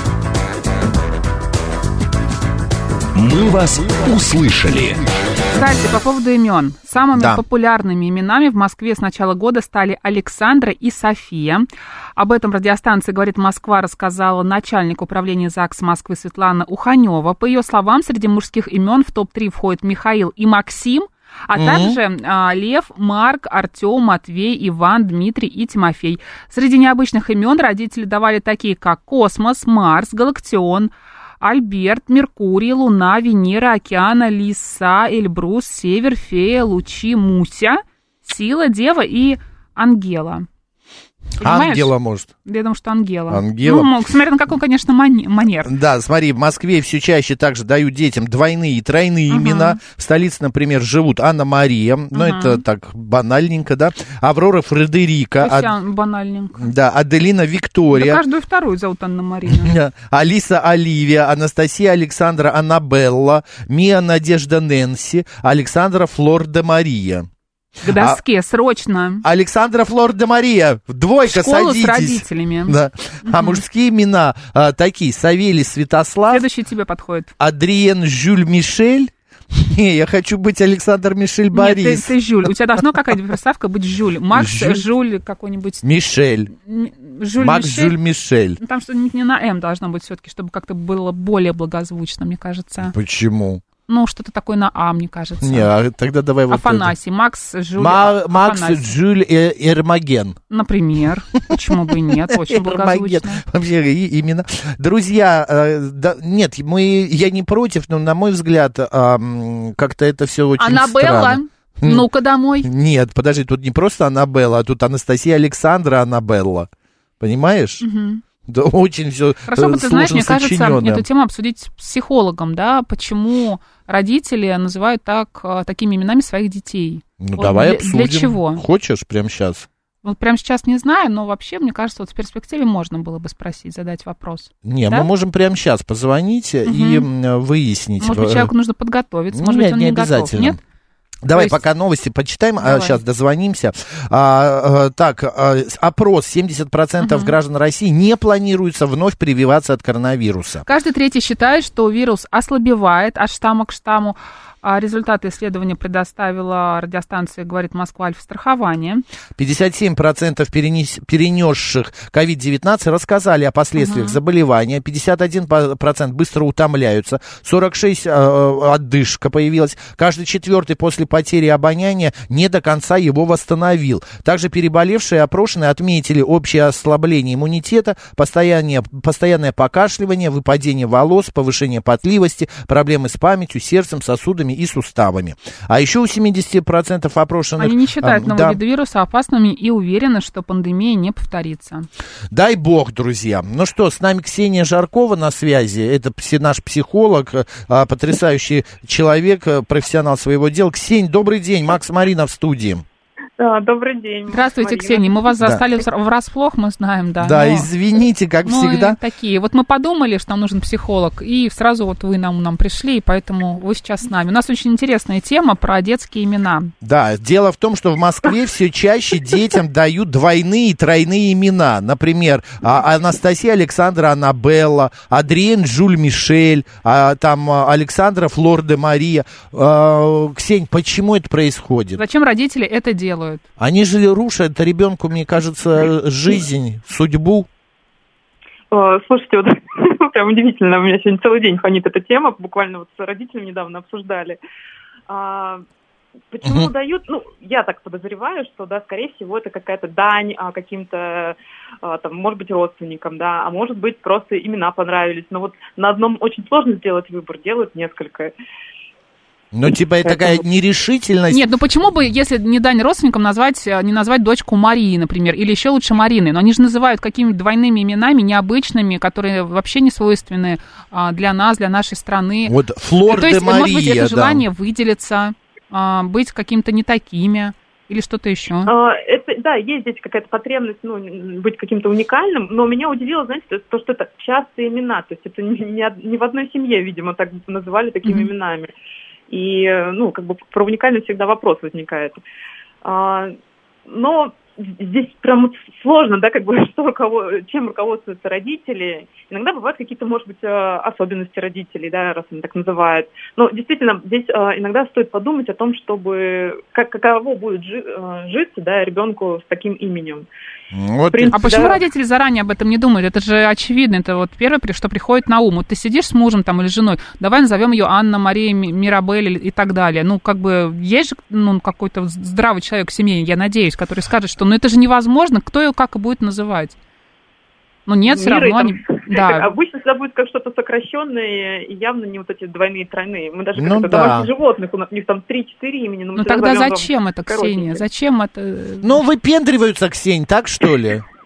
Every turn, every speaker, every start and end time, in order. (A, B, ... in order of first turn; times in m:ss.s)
0:03.1-0:05.1 A
0:05.5-0:40.5 B
0:07.1-0:07.4 C
0:21.5-0:22.0 C
0:41.4-0:41.9 B
0:41.4-0:42.3 C
0:42.4-0:45.7 B
0:43.3-0:43.9 C
0:45.6-0:55.7 C
0:49.3-0:49.8 B
0:52.1-0:52.6 B
0:55.4-0:56.7 B
0:56.6-0:58.2 C
0:57.9-0:59.7 B
0:59.5-1:07.3 C
1:07.8-1:09.2 B
1:07.8-1:08.2 C
1:09.2-1:16.4 C
1:11.2-1:13.6 B
1:16.3-1:17.3 B
1:17.4-1:22.1 C
1:21.5-1:25.8 B
1:24.3-1:24.8 C
1:25.8-1:26.5 C
1:26.6-1:28.0 B
1:27.4-1:28.6 C
1:28.6-1:32.9 B
1:32.9-1:33.6 C
1:33.9-1:35.7 B
1:35.4-1:36.9 C
1:36.5-1:38.9 B
1:37.8-1:40.4 C
1:40.5-1:43.4 B
1:41.5-1:52.1 C
1:50.6-1:52.7 B
1:52.6-1:56.7 C
1:57.2-1:57.8 C
1:57.8-1:58.2 B
1:58.4-2:01.0 C
1:59.5-2:08.6 B
2:07.2-2:09.7 C
2:10.0-2:15.1 B
2:14.6-2:18.5 C
2:16.6-2:17.1 B
2:18.0-2:20.6 B
2:19.3-2:20.6 C
2:21.2-2:30.6 C
2:21.3-2:21.6 B
2:22.6-2:23.0 B
2:27.0-2:27.3 B
2:30.6-2:39.0 B
2:39.4-3:08.6 C
2:43.8-2:44.2 B
3:07.6-3:11.9 B
3:12.3-3:22.8 C
3:23.4-3:25.2 D
3:24.3-3:27.7 B
3:27.2-3:29.0 C
3:28.4-3:36.7 B
3:36.8-3:52.0 C
3:52.0-3:53.4 B
3:53.6-3:57.5 C
3:58.7-4:04.4 D
4:05.1-4:05.6 D
4:06.3-4:18.3 D
4:06.4-4:06.7 C
4:19.5-4:21.4 C
4:20.0-4:20.4 D
4:21.3-4:32.5 B
4:32.4-4:34.4 C
4:33.1-4:38.7 B
4:38.6-4:48.7 D
4:48.0-4:48.3 B
4:49.3-4:52.2 D
4:52.8-4:53.4 D
4:53.9-5:10.3 D
5:10.7-5:11.4 C
5:11.1-5:11.8 D
5:11.3-5:26.8 B
5:27.9-5:29.5 B
5:28.0-5:37.8 D
5:33.6-5:34.3 C
5:36.2-5:39.0 B
5:38.8-5:41.0 C